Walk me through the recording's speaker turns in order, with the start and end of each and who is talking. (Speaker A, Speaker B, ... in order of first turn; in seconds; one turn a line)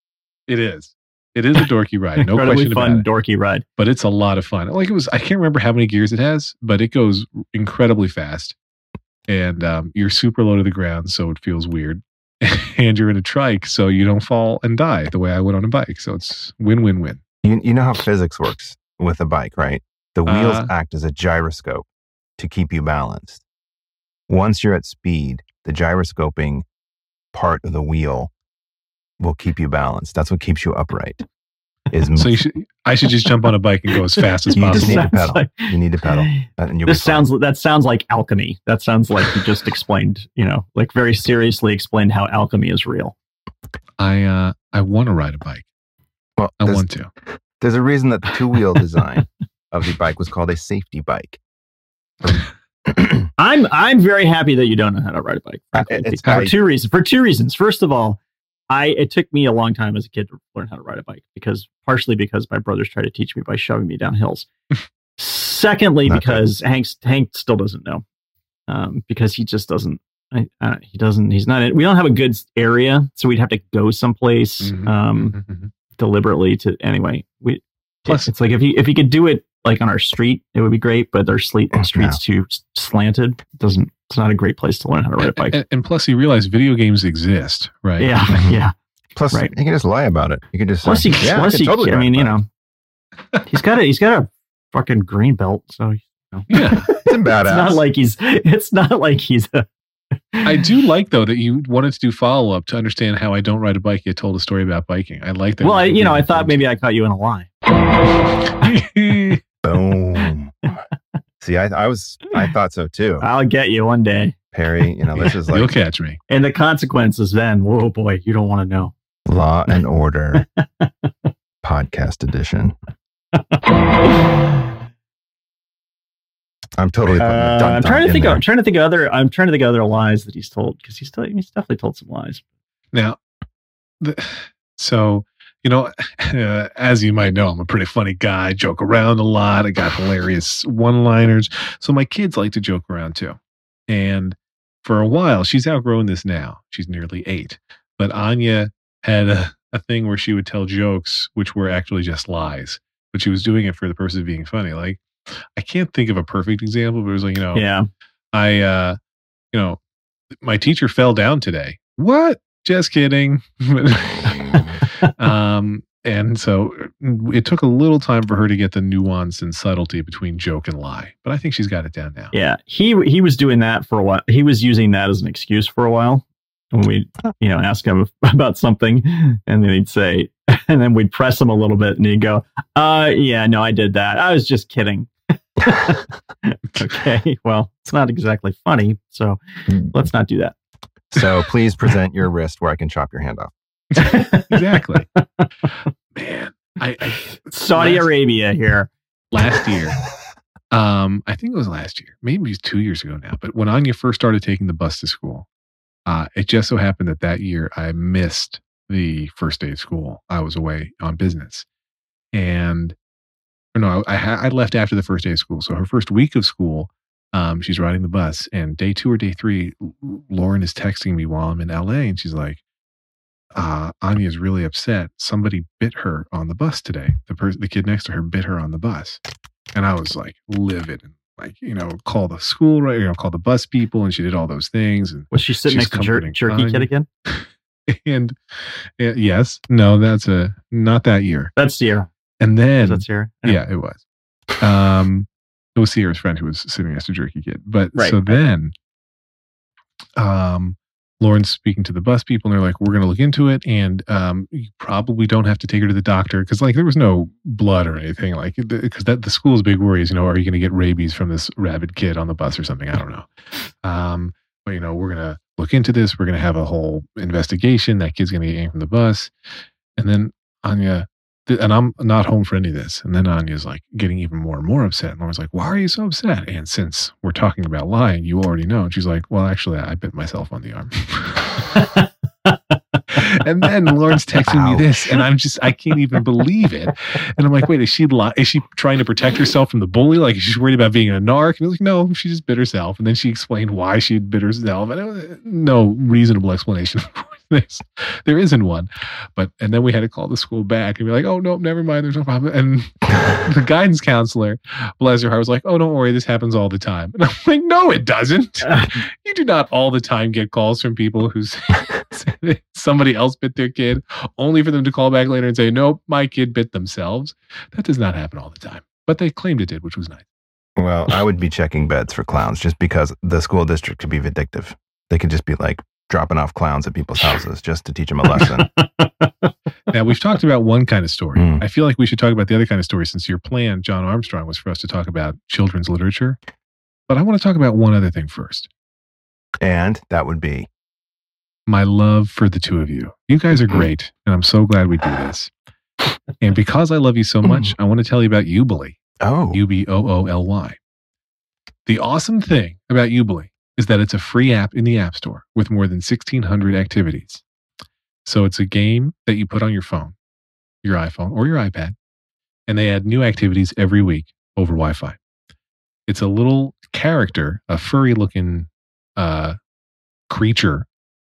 Speaker A: 0.5-3.1
Speaker B: 2.2-3.6
Speaker A: 3.8-8.6
Speaker A: 9.3-17.2
Speaker C: 17.4-21.9
Speaker A: 20.3-20.7
Speaker C: 22.4-23.4
Speaker C: 24.3-26.6
Speaker C: 27.3-28.3
Speaker C: 29.2-31.2
Speaker C: 31.9-32.4
Speaker A: 32.2-35.1
Speaker C: 34.5-37.3
Speaker B: 34.6-43.1
Speaker A: 44.0-45.7
Speaker C: 46.4-46.9
Speaker A: 46.6-47.1
Speaker C: 47.6-51.4
Speaker C: 52.2-53.3
Speaker B: 53.4-64.5
Speaker C: 55.7-56.5
Speaker B: 65.2-68.0
Speaker C: 66.1-66.4
Speaker B: 68.7-75.4
Speaker A: 74.6-75.7
Speaker B: 76.0-85.6
Speaker C: 81.7-82.2
Speaker A: 85.2-88.5
Speaker B: 88.0-88.7
Speaker C: 88.3-88.6
Speaker C: 89.2-92.4
Speaker B: 90.8-92.5
Speaker B: 93.5-99.7
Speaker A: 96.5-96.9
Speaker C: 96.9-97.8
Speaker B: 100.3-100.6
Speaker A: 100.4-106.6
Speaker B: 105.6-107.5
Speaker A: 108.4-109.4
Speaker C: 109.6-110.5
Speaker C: 111.4-113.3
Speaker B: 113.2-114.3
Speaker C: 114.5-115.7
Speaker A: 115.1-116.2
Speaker B: 116.3-118.9
Speaker C: 119.3-120.5
Speaker B: 120.3-121.3
Speaker C: 121.6-122.8
Speaker C: 126.8-128.4
Speaker B: 127.1-132.4
Speaker A: 132.9-133.2
Speaker A: 134.0-143.4
Speaker A: 143.9-155.1
Speaker A: 155.6-157.7
Speaker B: 157.6-157.9
Speaker A: 158.3-159.0
Speaker A: 159.5-159.8
Speaker A: 160.4-172.3
Speaker B: 172.3-190.5
Speaker C: 191.1-193.5
Speaker A: 194.0-195.1
Speaker B: 194.0-195.5
Speaker A: 196.1-198.1
Speaker B: 197.4-198.9
Speaker A: 199.3-200.0
Speaker A: 200.7-205.5
Speaker A: 206.1-211.7
Speaker A: 212.3-213.0
Speaker A: 213.7-222.6
Speaker A: 223.6-229.2
Speaker A: 229.8-241.5
Speaker B: 235.3-237.1
Speaker B: 241.6-242.1
Speaker A: 242.4-244.0
Speaker B: 242.8-243.6
Speaker A: 244.6-248.7
Speaker B: 247.9-248.2
Speaker A: 250.2-263.3
Speaker A: 263.8-269.3
Speaker A: 270.0-281.6
Speaker B: 281.8-282.6
Speaker A: 283.1-320.3
Speaker C: 284.5-285.0
Speaker B: 308.7-308.9
Speaker C: 320.8-328.7
Speaker B: 328.3-329.5
Speaker A: 329.9-336.4
Speaker C: 331.4-331.6
Speaker A: 337.1-338.7
Speaker C: 339.6-340.7
Speaker A: 341.7-345.5
Speaker A: 346.4-350.8
Speaker C: 347.4-347.7
Speaker C: 349.2-349.6
Speaker A: 351.9-357.4
Speaker A: 358.2-360.2
Speaker A: 360.8-361.9
Speaker A: 362.7-365.2
Speaker A: 366.1-369.6
Speaker A: 370.3-370.9